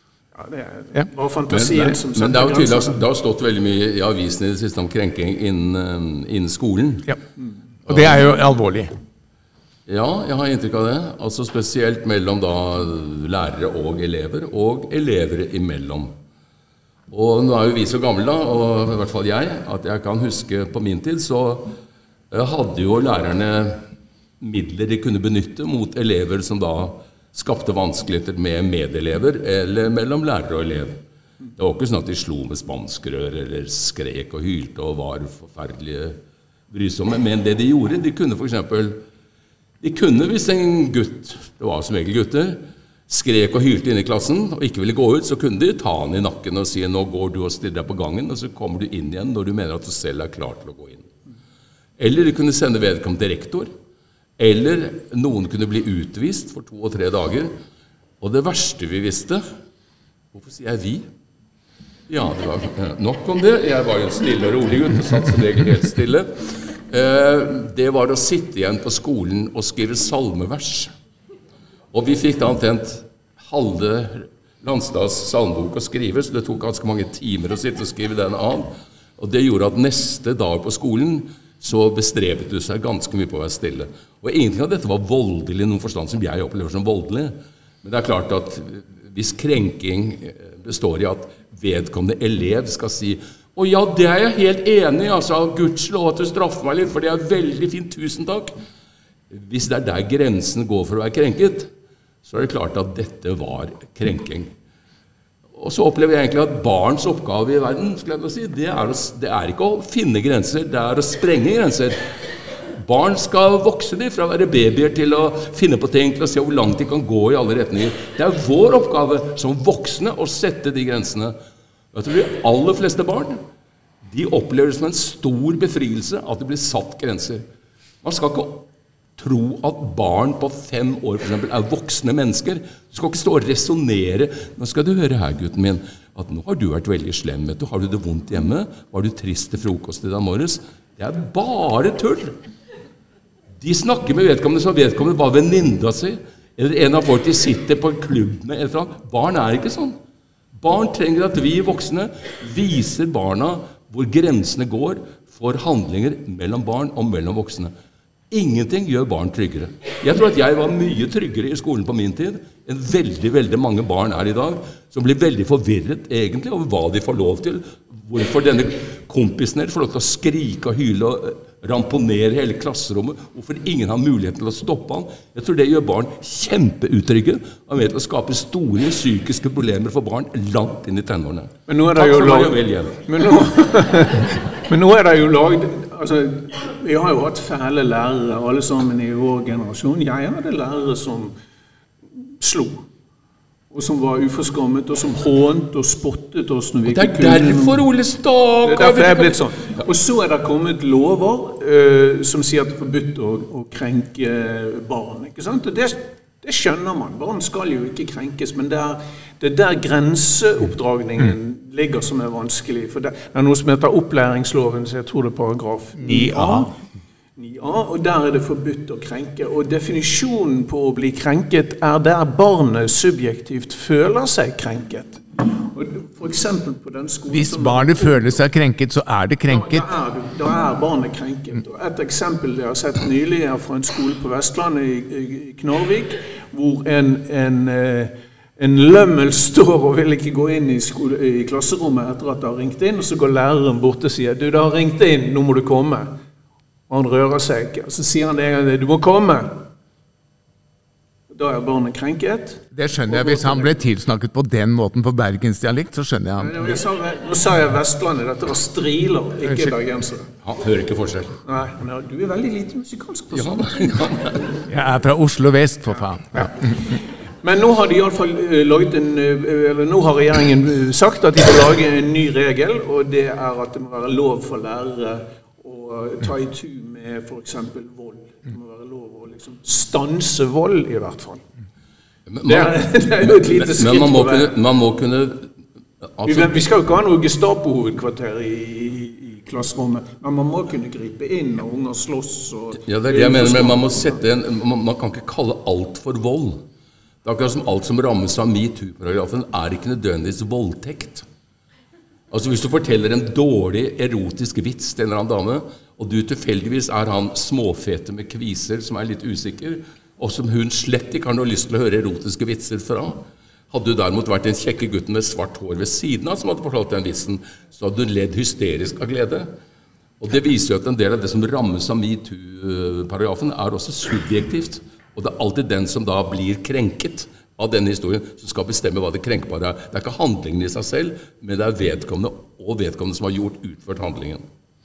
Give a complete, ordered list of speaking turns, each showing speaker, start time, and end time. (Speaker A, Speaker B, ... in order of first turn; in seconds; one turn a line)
Speaker A: 0.3-3.0
Speaker B: 1.5-7.1
Speaker B: 7.8-8.2
Speaker C: 7.9-8.9
Speaker B: 9.9-16.1
Speaker B: 17.1-21.8
Speaker B: 22.3-23.8
Speaker B: 24.4-31.0
Speaker B: 31.5-36.2
Speaker B: 36.7-39.0
Speaker B: 39.8-51.1
Speaker B: 52.0-53.7
Speaker B: 54.4-57.6
Speaker B: 58.2-59.4
Speaker B: 60.3-61.1
Speaker B: 62.1-70.9
Speaker B: 71.9-98.5
Speaker B: 99.3-101.7
Speaker B: 102.2-104.5
Speaker B: 105.5-112.0
Speaker B: 112.8-121.3
Speaker B: 121.9-123.4
Speaker B: 124.0-127.4
Speaker B: 128.0-142.4
Speaker B: 143.6-150.0
Speaker B: 150.6-157.7
Speaker B: 158.3-183.1
Speaker A: 181.7-191.3
Speaker A: 192.2-192.8
Speaker A: 193.7-197.8
Speaker B: 196.9-199.8
Speaker A: 198.6-216.7
Speaker C: 215.9-216.7
Speaker A: 217.3-228.4
Speaker C: 227.3-229.9
Speaker A: 229.5-246.2
Speaker A: 246.9-249.7
Speaker A: 251.3-253.8
Speaker C: 252.7-256.8
Speaker A: 256.4-260.3
Speaker C: 259.4-259.8
Speaker B: 260.4-261.4
Speaker A: 261.4-264.4
Speaker B: 263.3-264.5
Speaker C: 264.7-266.8
Speaker A: 267.4-281.4
Speaker B: 282.3-285.5
Speaker A: 282.4-284.5
Speaker B: 286.0-286.7
Speaker A: 286.2-294.2
Speaker B: 292.8-296.6
Speaker B: 297.2-301.2
Speaker B: 302.3-319.5
Speaker B: 320.2-334.4